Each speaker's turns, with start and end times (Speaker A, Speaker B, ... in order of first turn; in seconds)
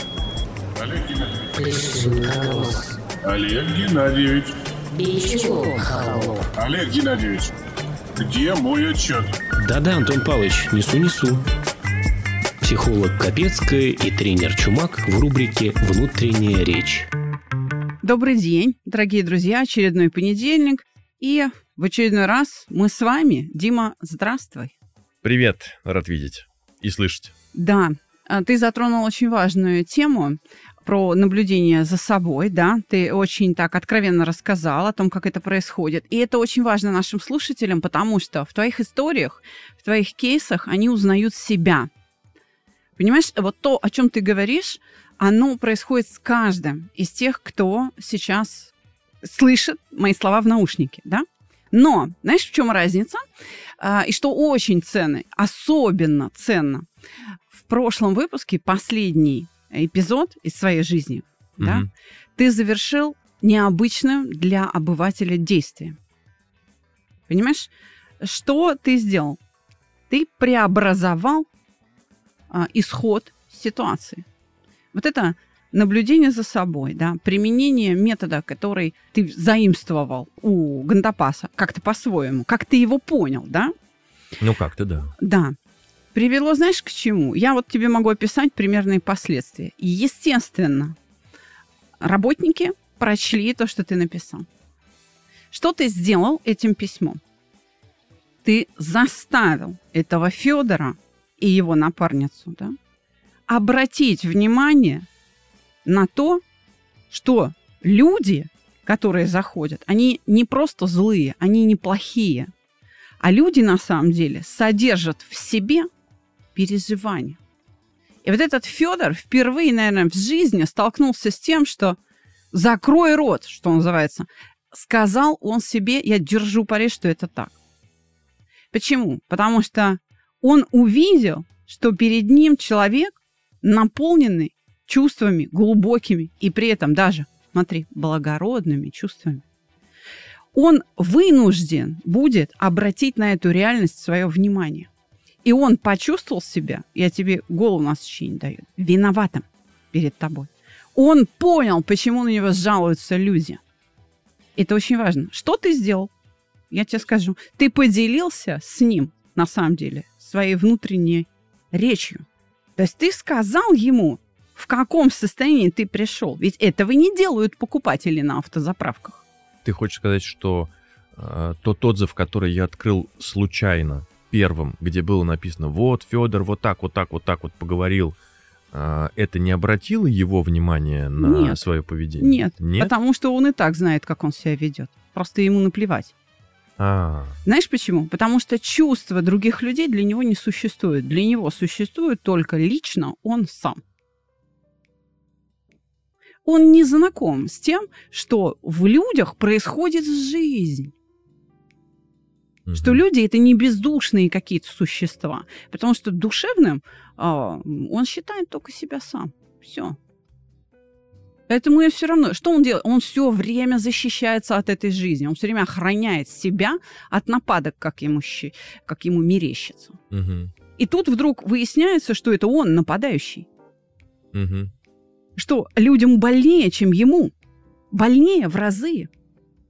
Speaker A: 0.8-1.6, 3.2-4.5, 6.6-7.5, 8.2-9.3
Speaker B: 1.6-2.9, 4.9-6.5
Speaker C: 1.7-2.9, 5.6-6.4, 9.6-11.4, 12.6-17.1
Speaker D: 18.0-24.7, 27.5-41.9, 43.0-53.2, 53.8-56.9, 57.5-66.0, 67.3-69.4, 70.1-71.5, 72.5-74.2, 74.9-83.7, 85.2-85.6, 86.1-91.0, 92.0-94.5, 95.5-97.2, 98.4-102.8, 103.5-105.1, 105.8-106.4, 107.1-112.5, 113.2-115.9, 116.5-117.4, 118.2-122.0, 122.5-127.6, 128.7-139.4, 140.5-144.9, 145.4-153.6, 154.6-156.1, 156.7-162.3, 162.8-169.2, 181.2-181.6, 182.2-186.1, 187.4-193.8, 196.4-200.9, 202.7-210.0, 211.5-220.0, 220.8-223.5, 225.4-227.3, 227.9-229.1
Speaker E: 25.2-27.3, 61.6-61.9, 84.4-85.1, 169.6-178.2, 178.7-182.9, 186.8-187.4, 202.7-203.0, 220.1-220.5, 224.3-224.7